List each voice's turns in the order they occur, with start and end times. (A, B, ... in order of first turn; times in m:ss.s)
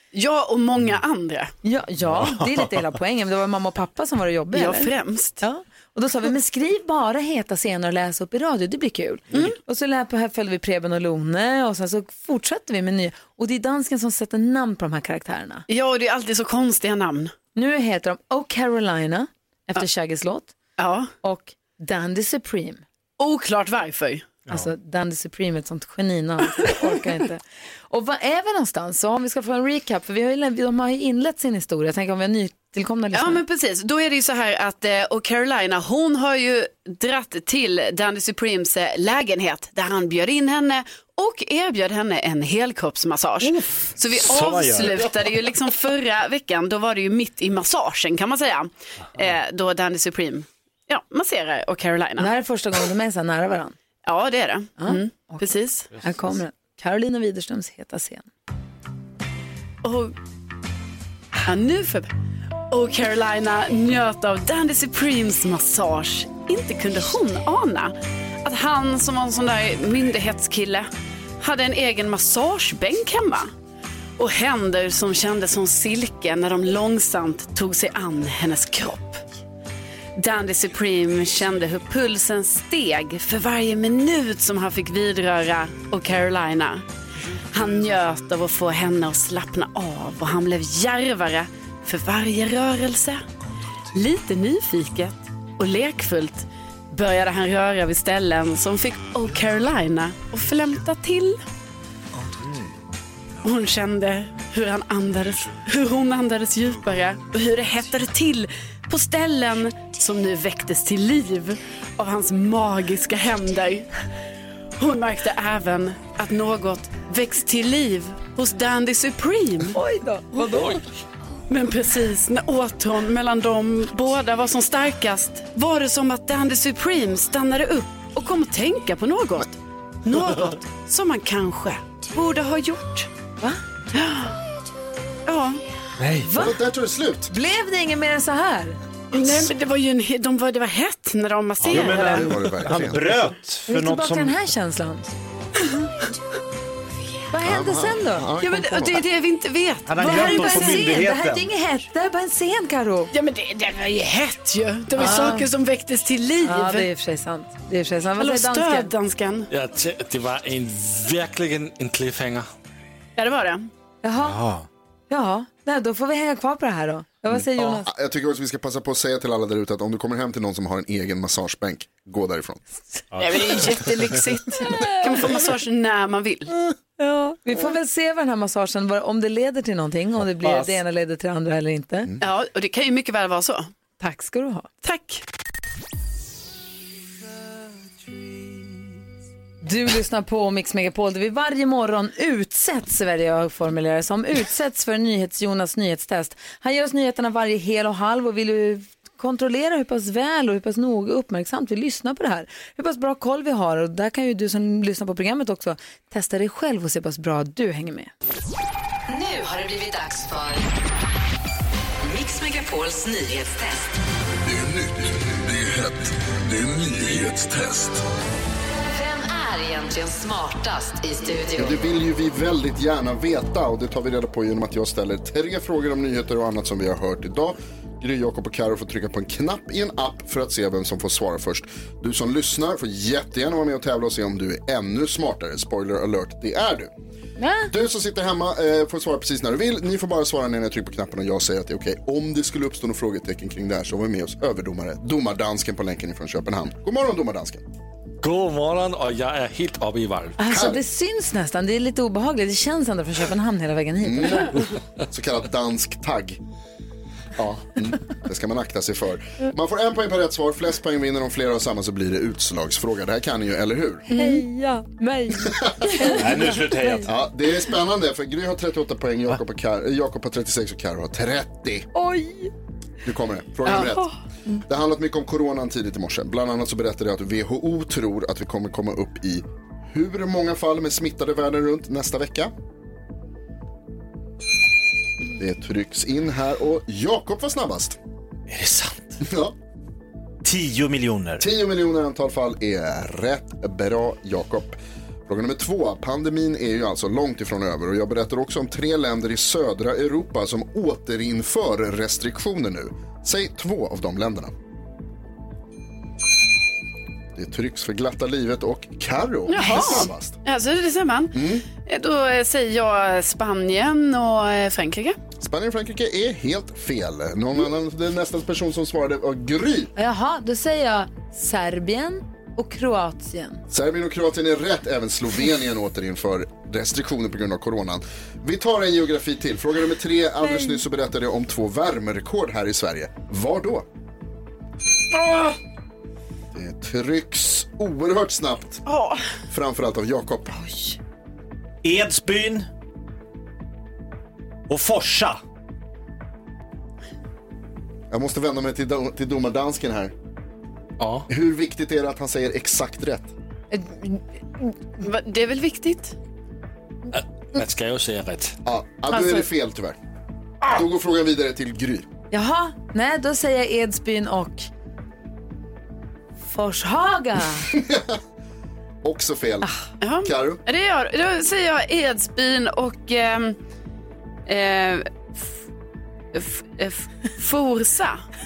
0:00.1-0:01.5 A
0:01.6-0:15.6 B
0:02.1-0:02.6 C
0:04.5-0:05.4 A
0:15.7-0:17.3 A
0:17.6-0:20.5 B
0:20.8-0:21.1 A
0:21.2-0:22.8 B
0:23.2-0:24.3 A
0:24.5-0:33.4 B
0:33.1-0:52.3 A
0:44.2-0:45.1 C
0:52.2-0:53.8 B
0:54.0-0:55.9 A
0:54.8-0:58.3 B
0:59.8-1:00.1 A
1:01.5-1:02.1 A
1:02.7-1:10.9 A
1:11.4-1:13.5 A
1:14.2-1:19.2 A
1:20.2-1:26.8 A
1:27.5-1:33.2 A
1:33.9-1:41.4 A
1:43.4-1:53.9 A
1:54.8-1:59.8 A
1:59.7-2:00.8 B
2:01.5-2:13.1 A
2:13.9-2:14.4 A
2:15.3-2:15.6 A
2:16.0-2:16.3 C
2:16.2-2:16.6 B
2:16.4-2:17.3 D
2:17.3-2:18.8 B
2:19.1-2:22.4 A
2:21.6-2:23.2 D
2:21.7-2:24.4 C
2:23.7-2:25.1 B
2:27.3-2:28.3 B
2:27.4-2:29.0 D
2:28.4-2:30.9 A
2:29.9-2:31.5 C
2:30.0-2:33.1 B
2:33.1-2:36.9 A
2:35.0-2:35.5 B
2:36.4-2:38.9 B
2:38.2-2:39.5 A
2:39.5-2:42.5 E
2:43.2-2:43.7 A
2:44.0-2:44.4 B
2:44.2-2:44.7 C
2:45.1-2:47.9 B
2:47.3-2:52.6 D
2:53.2-2:56.5 A
2:54.7-2:55.4 B
2:57.0-3:02.1 B
3:00.4-3:00.8 C
3:02.2-3:03.7 A
3:04.0-3:04.7 B
3:04.8-3:05.2 A
3:09.6-3:28.1 B
3:29.1-3:30.7 F
3:32.0-3:33.9 F
3:34.5-3:38.0 G
3:38.9-3:41.9 F
3:41.6-3:56.9 D
3:57.4-3:57.7 B
3:57.7-4:07.6 D
4:08.2-4:10.4 E
4:10.4-4:14.6 B
4:10.5-4:10.8 D
4:14.0-4:16.4 D
4:17.4-4:24.1 D
4:24.1-4:27.1 B
4:25.4-4:26.5 D
4:26.0-4:27.1 C
4:27.0-4:31.9 D
4:31.9-4:32.5 B
4:33.0-4:42.5 D
4:45.4-4:48.0 D
4:48.5-4:49.2 C
4:49.2-4:49.6 D
4:50.4-4:51.4 C
4:51.4-5:04.5 D
5:07.4-5:10.4 D
5:09.5-5:15.2 A
5:11.3-5:11.6 D
5:15.4-5:19.9 D
5:20.0-5:23.6 B
5:23.7-5:33.9 D
5:30.4-5:30.8 B
5:36.5-5:38.8 D
5:38.9-5:39.2 A
5:39.5-5:40.6 D
5:41.8-5:42.7 C
5:44.7-5:45.4 C
5:48.1-5:50.1 D
5:51.0-5:51.3 E
5:51.3-5:53.3 D
5:53.7-5:54.2 B
5:55.0-5:56.2 A
5:57.1-5:58.6 E
5:58.6-6:00.0 D
5:59.1-5:59.5 A
6:00.7-6:02.1 D
6:02.3-6:04.7 B
6:06.4-6:07.7 B
6:07.7-6:08.2 D
6:09.0-6:09.7 D
6:10.0-6:13.6 A
6:10.2-6:10.6 D
6:14.5-6:15.1 A
6:16.3-6:18.2 A